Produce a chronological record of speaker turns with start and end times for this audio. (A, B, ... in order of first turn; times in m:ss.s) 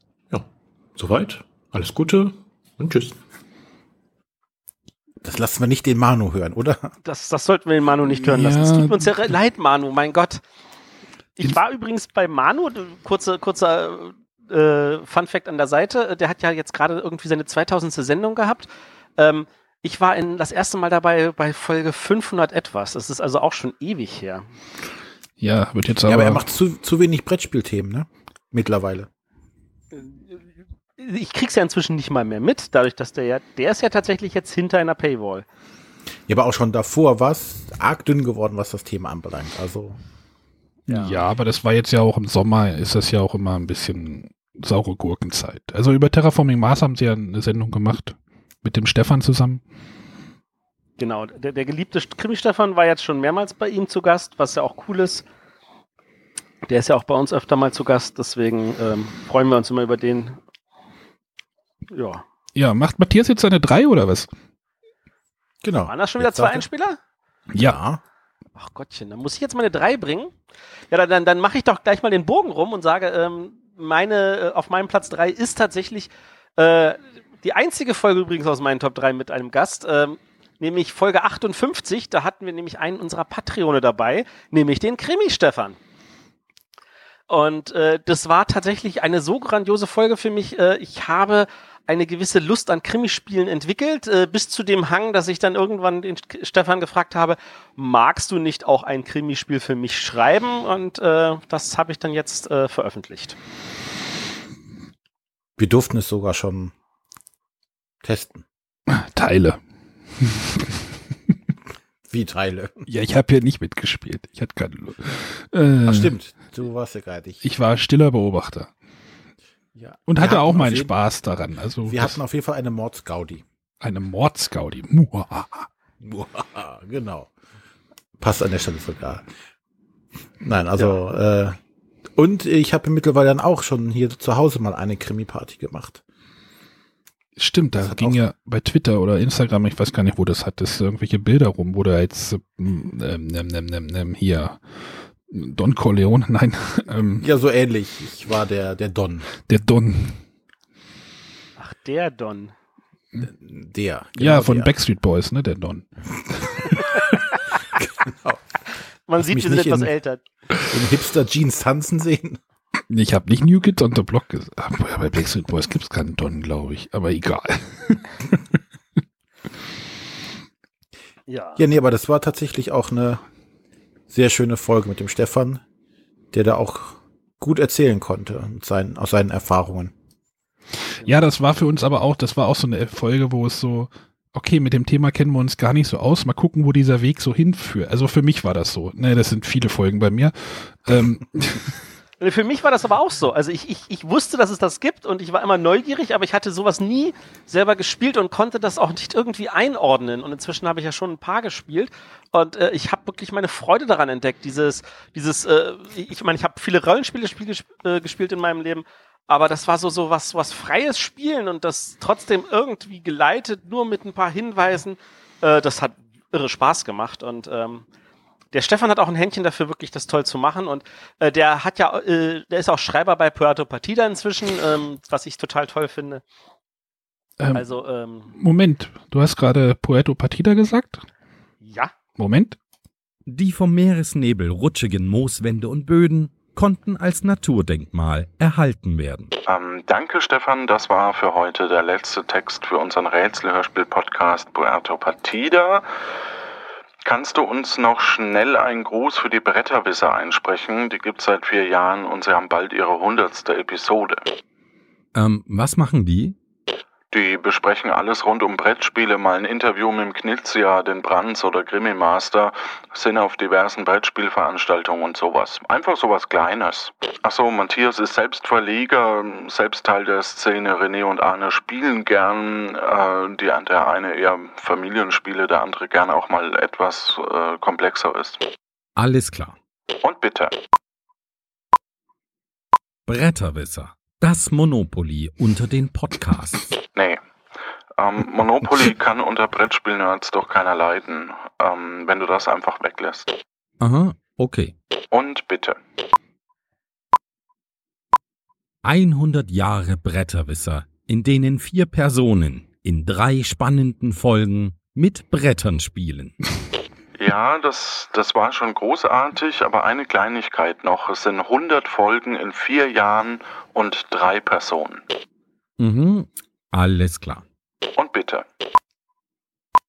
0:00.3-0:03.2 A
0:05.2-0:06.9 B
0:07.0-0:10.4 C
0:08.1-0:09.3 D
0:11.4-0:24.5 C
0:25.4-0:26.5 D
0:26.0-0:29.1 B
0:30.0-0:30.4 C
0:31.0-0:35.4 C
0:36.3-0:40.0 B
0:40.9-0:49.6 D
0:40.9-0:41.2 C
0:51.0-0:55.2 C
0:56.7-1:00.4 C
1:01.9-1:02.2 C
1:02.5-1:04.3 D
1:05.6-1:06.6 B
1:05.9-1:07.0 C
1:07.5-1:08.0 B
1:08.6-1:10.3 C
1:10.9-1:25.8 C
1:27.3-1:43.4 C
1:45.6-1:46.7 B
1:48.0-1:48.4 B
1:48.9-1:49.6 D
1:50.2-1:50.6 D
1:52.1-1:52.8 B
1:52.9-1:56.1 D
1:55.8-1:57.4 B
1:57.4-1:58.7 D
1:59.7-2:00.9 B
2:00.1-2:02.2 D
2:01.8-2:03.4 B
2:03.8-2:05.7 D
2:06.0-2:07.3 B
2:08.2-2:09.2 B
2:10.4-2:11.6 B
2:12.2-2:16.0 B
2:17.4-2:27.3 D
2:17.7-2:18.2 B
2:27.2-2:29.3 B
2:29.5-2:30.2 D
2:31.6-2:32.5 C
2:33.2-2:34.7 B
2:34.2-2:35.9 D
2:36.4-2:36.7 D
2:38.0-2:38.4 B
2:39.1-2:40.2 C
2:39.2-2:39.9 B
2:40.7-2:42.4 B
2:42.9-2:48.1 D
2:51.3-2:51.6 C
2:51.6-2:53.2 B
2:54.1-2:55.6 B
2:56.3-2:59.9 B
3:01.0-3:11.7 D
3:12.2-3:37.8 C
3:38.5-3:46.2 C
3:47.4-3:47.6 D
3:47.5-3:48.3 C
3:48.3-3:51.0 D
3:51.6-3:51.9 C
3:52.2-3:52.6 D
3:53.3-3:59.3 E
3:59.5-4:05.9 F
4:07.0-4:14.3 F
4:15.1-4:16.4 E
4:17.1-4:38.4 F
4:39.0-4:39.6 E
4:40.0-4:40.6 F
4:43.1-4:46.7 E
4:46.9-4:47.2 F
4:48.0-4:53.3 F
4:53.8-4:54.7 E
4:55.1-4:55.8 F
4:58.8-5:06.3 E
5:07.2-5:15.0 F
5:15.8-5:17.4 E
5:17.9-5:18.4 F